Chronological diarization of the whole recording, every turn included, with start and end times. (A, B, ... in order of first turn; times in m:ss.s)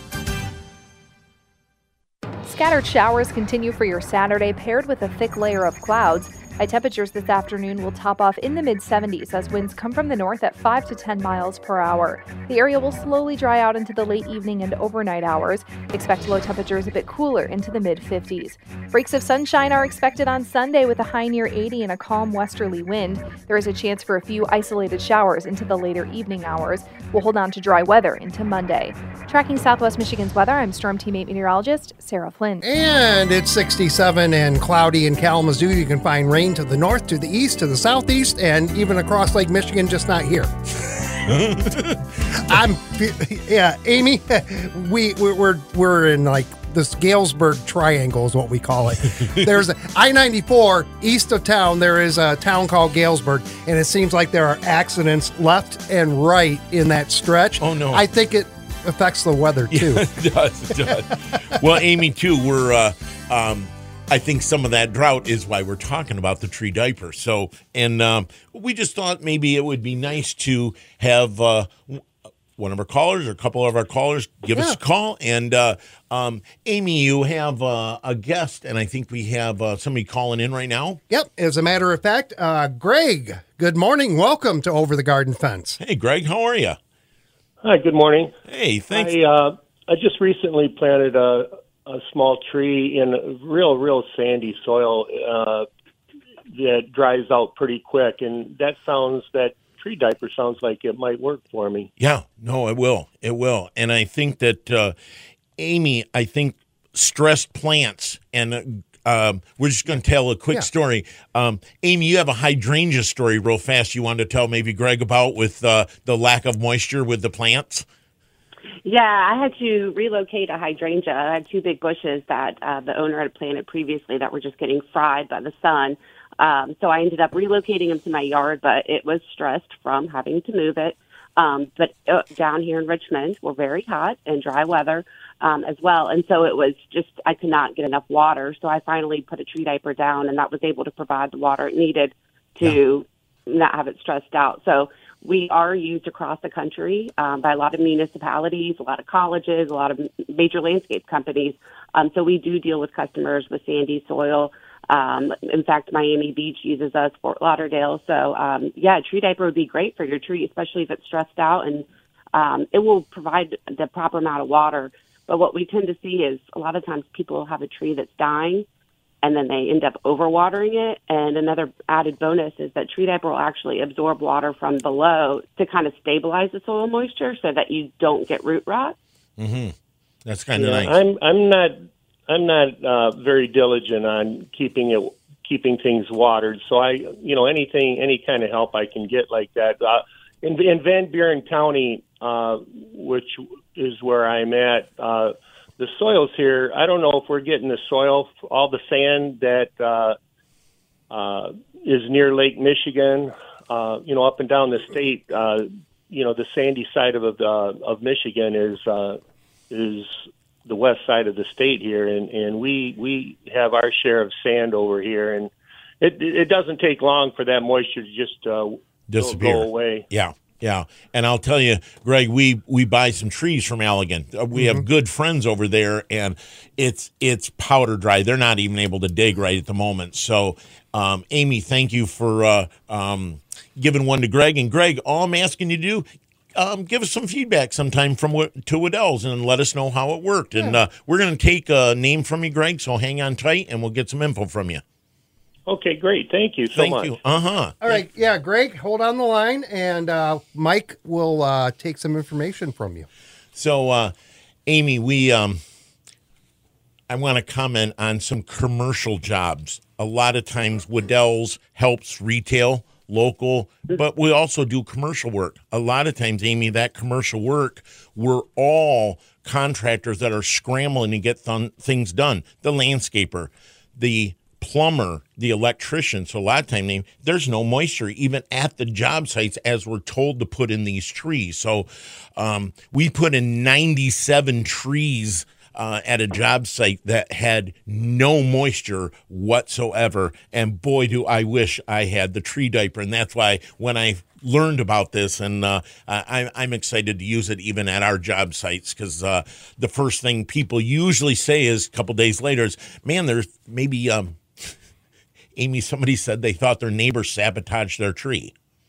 0:02.4-0:32.6 A
0:32.6-0:40.5 B
0:41.2-0:42.0 C
0:42.3-1:00.0 B
0:57.6-0:58.0 C
0:59.7-1:12.0 C
1:12.6-1:21.0 C
1:21.1-1:25.8 B
1:25.8-1:26.8 C
1:27.6-1:28.3 D
1:28.5-1:29.2 C
1:28.9-1:35.7 D
1:36.5-1:41.9 D
1:42.0-1:44.9 C
1:45.6-1:57.8 C
1:58.8-2:48.6 E
2:49.2-2:59.0 E
2:59.4-3:01.0 C
3:00.5-3:20.2 D
3:21.1-3:40.1 D
3:39.1-4:04.8 C
3:44.5-3:44.8 B
4:05.7-4:07.2 D
4:06.7-4:08.0 C
4:07.8-4:13.1 B
4:13.5-4:14.1 C
4:14.7-4:15.6 C
4:17.1-5:04.7 C
5:05.6-5:08.5 C